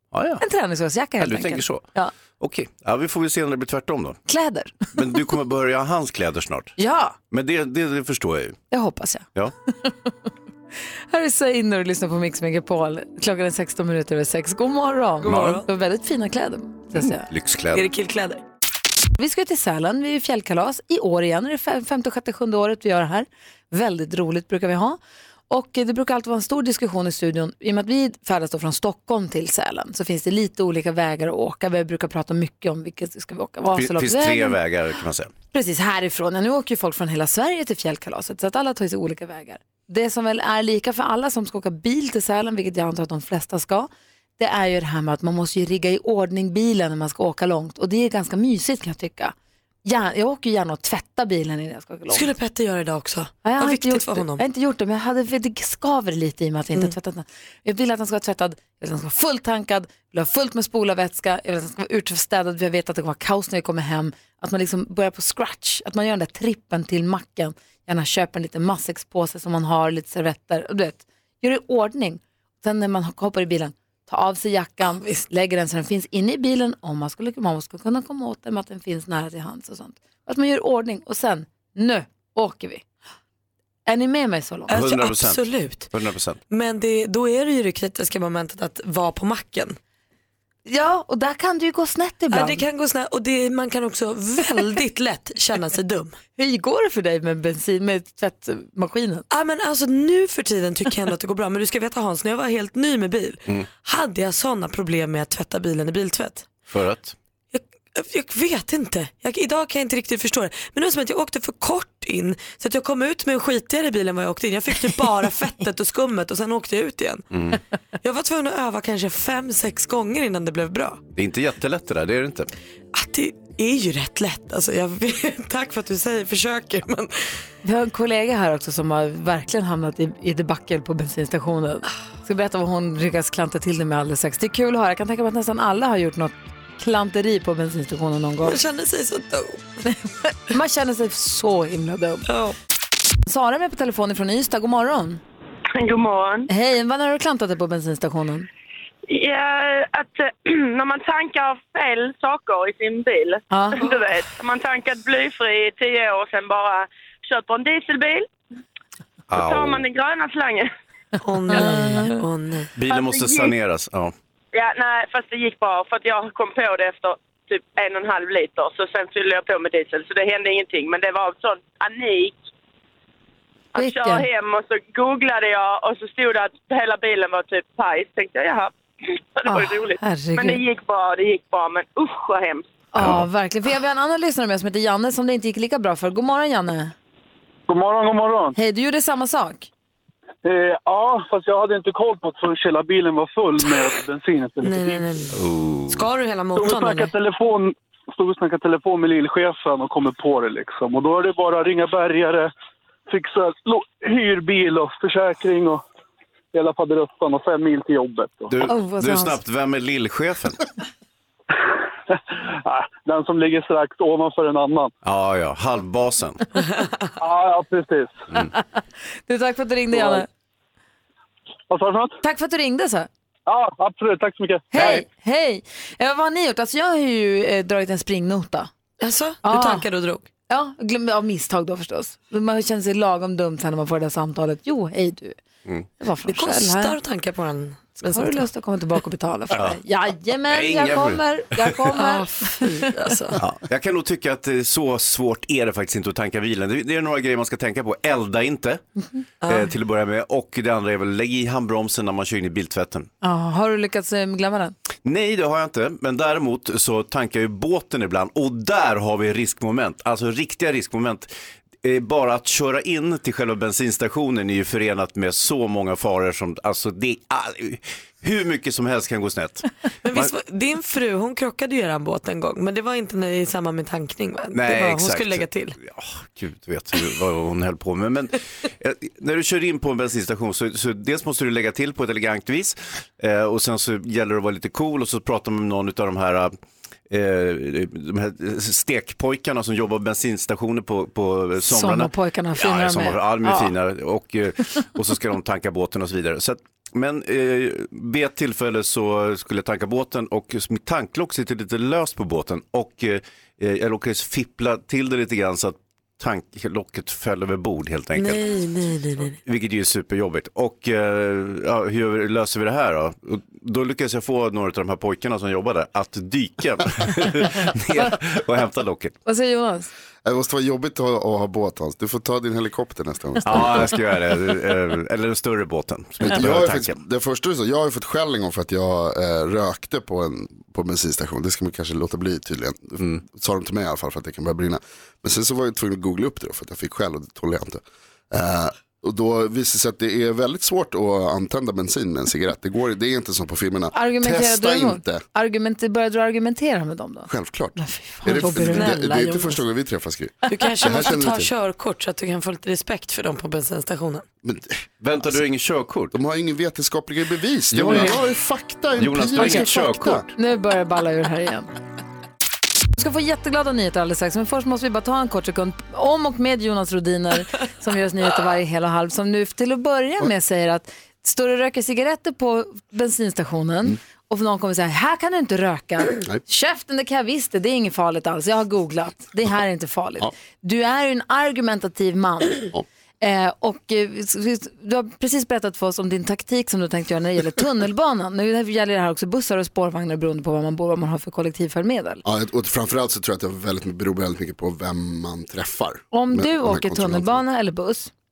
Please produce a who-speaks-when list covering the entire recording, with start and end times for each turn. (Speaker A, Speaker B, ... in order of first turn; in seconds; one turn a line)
Speaker A: 0.1-0.4
Speaker B: 0.4-2.1
Speaker A: 1.2-1.9
Speaker A: 2.4-4.2
Speaker B: 4.3-4.9
Speaker A: 4.9-6.7
Speaker B: 6.8-7.2
Speaker A: 7.3-8.6
Speaker B: 8.7-9.3
Speaker B: 11.1-17.2
Speaker C: 15.2-15.7
Speaker A: 15.3-15.6
Speaker A: 17.0-17.9
Speaker C: 17.7-18.4
Speaker B: 19.2-25.0
Speaker B: 25.5-34.6
Speaker A: 33.7-35.3
Speaker B: 35.5-49.3
Speaker B: 49.9-52.3
Speaker C: 52.1-54.4
Speaker B: 53.4-82.8
Speaker B: 83.9-84.8
Speaker C: 84.7-85.9
Speaker A: 84.7-86.4
Speaker C: 86.5-89.8
Speaker B: 90.7-92.6
Speaker C: 92.3-96.2
Speaker B: 96.4-99.2
Speaker C: 99.3-106.5
Speaker A: 106.7-107.2
Speaker C: 107.5-117.3
Speaker A: 117.3-117.6
Speaker C: 118.0-121.0
Speaker A: 121.1-122.5
Speaker C: 123.0-127.4
Speaker B: 127.6-138.6
Speaker C: 138.4-139.8
Speaker B: 139.9-142.2
Speaker C: 142.3-142.6
Speaker B: 143.3-145.2
Speaker D: 145.8-146.5
Speaker B: 146.5-148.5
Speaker D: 149.1-158.3
Speaker B: 153.5-153.9
Speaker A: 159.3-159.8
Speaker D: 159.3-160.7
Speaker C: 161.2-162.7
Speaker B: 161.5-162.1
Speaker A: 162.8-164.1
Speaker D: 162.9-163.5
Speaker D: 164.5-172.4
Speaker D: 173.8-178.7
Speaker B: 173.8-174.3
Speaker D: 179.4-182.7
Speaker B: 179.5-180.6
Speaker B: 182.9-186.9
Speaker E: 187.7-188.6
Speaker B: 188.6-189.7
Speaker E: 190.4-195.2
Speaker C: 194.6-195.4
Speaker A: 195.3-196.1
Speaker C: 195.9-197.2
Speaker E: 196.6-202.5
Speaker E: 203.1-205.8
Speaker E: 206.5-208.5
Speaker A: 208.5-210.6
Speaker B: 208.6-209.4
Speaker E: 212.1-214.9
Speaker A: 215.0-216.4
Speaker E: 217.2-218.2
Speaker B: 218.3-218.6
Speaker B: 219.3-220.3
Speaker E: 219.9-220.2
Speaker E: 221.7-222.2
Speaker B: 222.2-223.1
Speaker E: 223.5-225.0
Speaker B: 224.7-228.7
Speaker A: 224.8-225.0
Speaker C: 229.0-230.3
Speaker B: 229.4-229.9
Speaker B: 230.5-235.4
Speaker B: 236.0-237.0
Speaker C: 236.2-238.4
Speaker B: 238.0-242.7
Speaker A: 239.5-239.8
Speaker A: 240.5-241.9
Speaker C: 241.9-243.4
Speaker A: 243.4-248.8
Speaker C: 249.4-249.7
Speaker A: 249.5-253.1
Speaker B: 253.2-254.8
Speaker A: 255.0-261.3
Speaker A: 261.8-270.3
Speaker C: 270.0-275.8
Speaker A: 274.5-286.5
Speaker A: 287.1-308.4
Speaker B: 291.6-293.7
Speaker C: 308.1-309.4
Speaker A: 309.4-319.2
Speaker B: 319.2-319.9
Speaker F: 320.2-323.9
Speaker A: 323.4-326.9
Speaker F: 326.2-345.2
Speaker B: 343.9-349.6
Speaker F: 347.3-351.5
Speaker C: 348.5-349.4
Speaker C: 350.5-354.2
Speaker F: 354.4-355.4
Speaker A: 355.0-356.2
Speaker F: 356.1-360.3
Speaker A: 357.7-358.2
Speaker A: 359.0-360.3
Speaker B: 359.4-359.6
Speaker B: 360.4-361.7
Speaker B: 363.0-382.7
Speaker B: 383.2-392.2
Speaker F: 392.2-397.4
Speaker B: 396.1-398.1